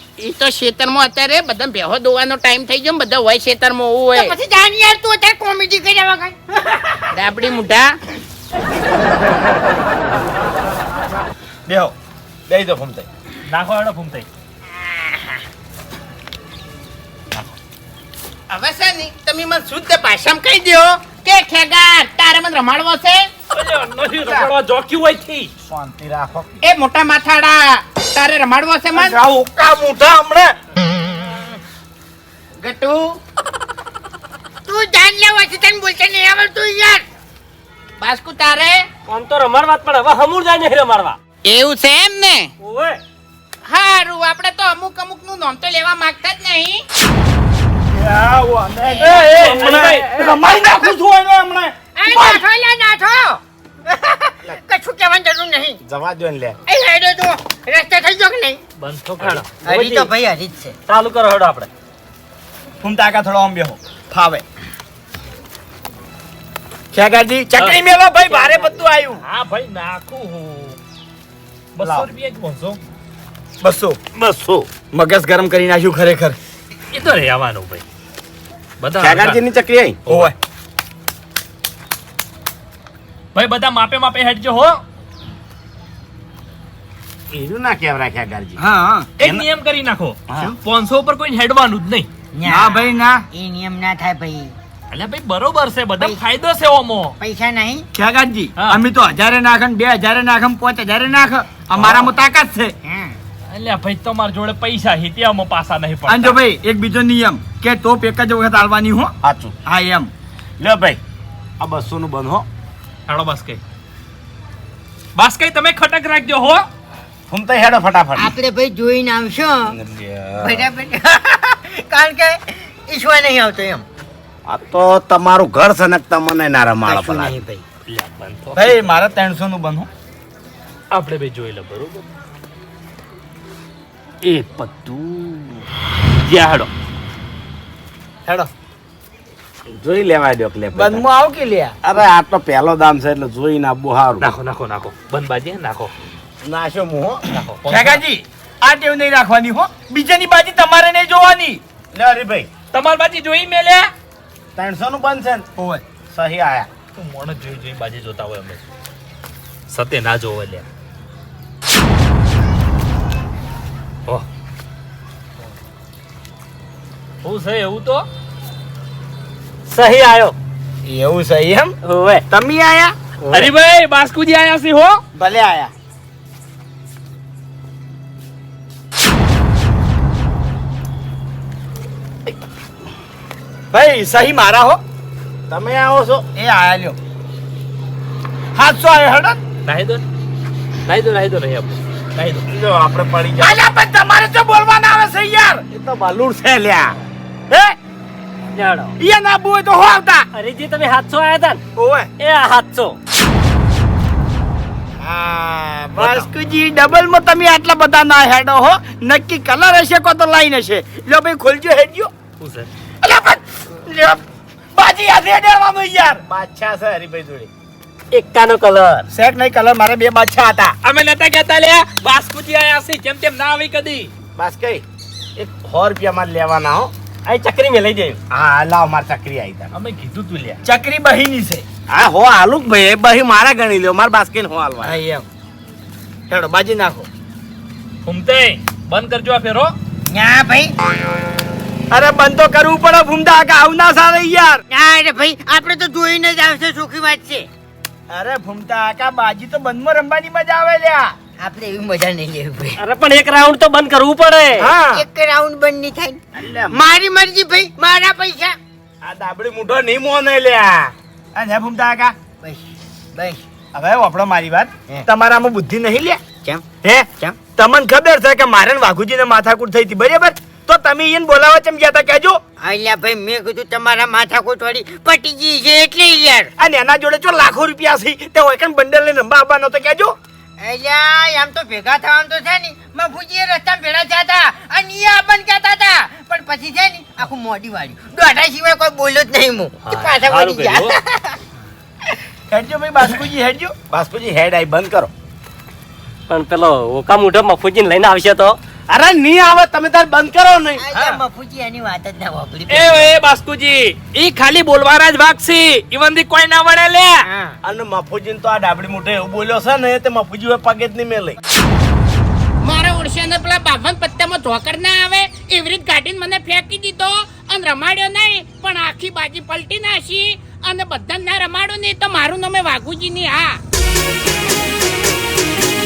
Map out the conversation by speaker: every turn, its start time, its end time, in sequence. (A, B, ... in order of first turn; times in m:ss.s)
0:00.2-0:04.4 A
0:04.2-0:07.0 B
0:07.1-0:08.0 A
0:11.7-0:11.9 C
0:12.5-0:13.1 C
0:13.5-0:14.3 D
0:18.5-0:23.3 A
0:23.5-0:25.5 D
0:25.7-0:26.5 C
0:26.6-0:29.2 A
0:28.9-0:30.5 C
0:32.6-0:33.1 A
0:34.7-0:37.0 B
0:38.0-0:38.9 A
0:39.1-0:41.2 E
0:41.5-0:42.5 A
0:42.6-0:43.0 E
0:43.6-0:46.8 A
0:47.9-0:49.9 C
0:49.0-0:52.4 F
0:49.3-0:50.4 E
0:49.4-0:50.1 D
0:52.0-0:55.8 B
0:55.8-0:56.6 C
0:56.7-0:58.6 B
0:58.8-1:00.1 E
0:59.2-0:59.4 D
0:59.6-1:00.8 B
1:00.9-1:01.7 E
1:02.8-1:04.4 F
1:06.9-1:09.2 F
1:09.2-1:10.8 D
1:11.8-1:12.8 D
1:11.8-1:12.1 F
1:13.6-1:14.0 F
1:14.2-1:15.7 C
1:15.4-1:16.4 F
1:16.9-1:17.8 D
1:18.8-1:19.4 D
1:19.0-1:20.3 C
1:20.1-1:20.3 F
1:23.4-1:24.8 D
1:27.3-1:28.6 C
1:28.6-1:29.1 F
1:29.2-1:32.1 D
1:30.3-1:30.6 C
1:32.3-1:34.6 B
1:32.4-1:33.2 F
1:34.9-1:37.2 D
1:37.2-1:37.8 B
1:37.9-1:42.7 F
1:41.8-1:42.1 C
1:42.8-1:43.2 B
1:43.5-1:46.4 D
1:46.1-1:49.1 F
1:49.2-1:49.6 C
1:49.6-1:50.1 F
1:50.6-1:51.0 C
1:51.6-1:52.5 C
1:53.1-1:53.6 D
1:55.2-1:56.7 D
1:57.3-1:58.3 C
1:58.2-1:59.8 B
1:59.7-2:00.7 C
2:00.4-2:03.8 B
2:04.5-2:07.3 C
2:06.8-2:07.6 B
2:07.9-2:08.9 D
2:08.6-2:09.9 F
2:10.9-2:12.0 D
2:14.3-2:15.4 F
2:16.3-2:16.7 D
2:19.7-2:21.0 C
2:20.7-2:21.8 F
2:21.8-2:24.3 C
2:24.2-2:25.9 D
2:26.4-2:27.3 C
2:27.3-2:28.0 D
2:27.7-2:31.6 F
2:31.9-2:32.5 C
2:32.7-2:33.9 D
2:34.6-2:35.5 C
2:35.6-2:35.8 F
2:36.1-2:36.7 C
2:37.0-2:38.6 D
2:39.7-2:40.6 D
2:47.2-2:48.1 D
2:49.7-2:50.4 E
2:50.9-2:51.7 C
2:51.1-2:51.7 F
2:51.8-2:52.2 E
2:52.3-2:52.9 F
2:53.2-2:53.5 E
2:53.3-2:55.0 D
2:55.2-2:55.7 F
3:03.7-3:04.8 F
3:05.5-3:06.3 C
3:06.4-3:07.0 F
3:08.6-3:09.4 F
3:09.6-3:10.0 D
3:10.9-3:12.4 D
3:12.5-3:13.6 C
3:13.4-3:15.6 F
3:15.7-3:17.0 C
3:17.5-3:17.8 F
3:18.5-3:19.0 E
3:19.0-3:20.3 F
3:20.3-3:21.6 E
3:21.8-3:22.1 F
3:22.2-3:23.0 E
3:25.0-3:32.1 F
3:32.4-3:32.7 D
3:33.0-3:34.2 F
3:34.8-3:36.2 F
3:36.3-3:37.5 C
3:38.1-3:39.1 E
3:39.1-3:40.8 F
3:40.8-3:44.1 D
3:44.4-3:44.8 C
3:45.4-3:46.9 C
3:47.3-3:48.2 E
3:48.3-3:49.7 C
3:49.7-3:50.6 D
3:50.6-3:51.6 F
3:51.9-3:55.0 C
3:54.8-3:55.3 F
3:56.3-3:57.1 F
3:58.0-3:59.7 D
4:00.1-4:00.7 B
4:01.9-4:04.6 F
4:04.7-4:07.5 B
4:08.1-4:11.2 F
4:11.4-4:12.8 B
4:12.8-4:14.7 E
4:14.6-4:15.0 F
4:14.9-4:16.2 B
4:16.4-4:16.7 C
4:16.7-4:18.6 B
4:19.0-4:20.9 C
4:21.3-4:22.2 F
4:22.4-4:23.4 B
4:23.7-4:26.2 F
4:26.8-4:32.4 F
4:32.6-4:36.5 B
4:36.6-4:40.2 F
4:40.6-4:51.4 B
4:49.9-4:51.0 D
4:52.5-4:53.8 F
4:53.9-4:55.1 C
4:56.3-4:58.6 E
4:58.9-5:00.8 C
5:00.8-5:03.1 B
5:02.7-5:07.2 D
5:07.2-5:07.6 B
5:07.6-5:11.4 C
5:12.6-5:23.6 A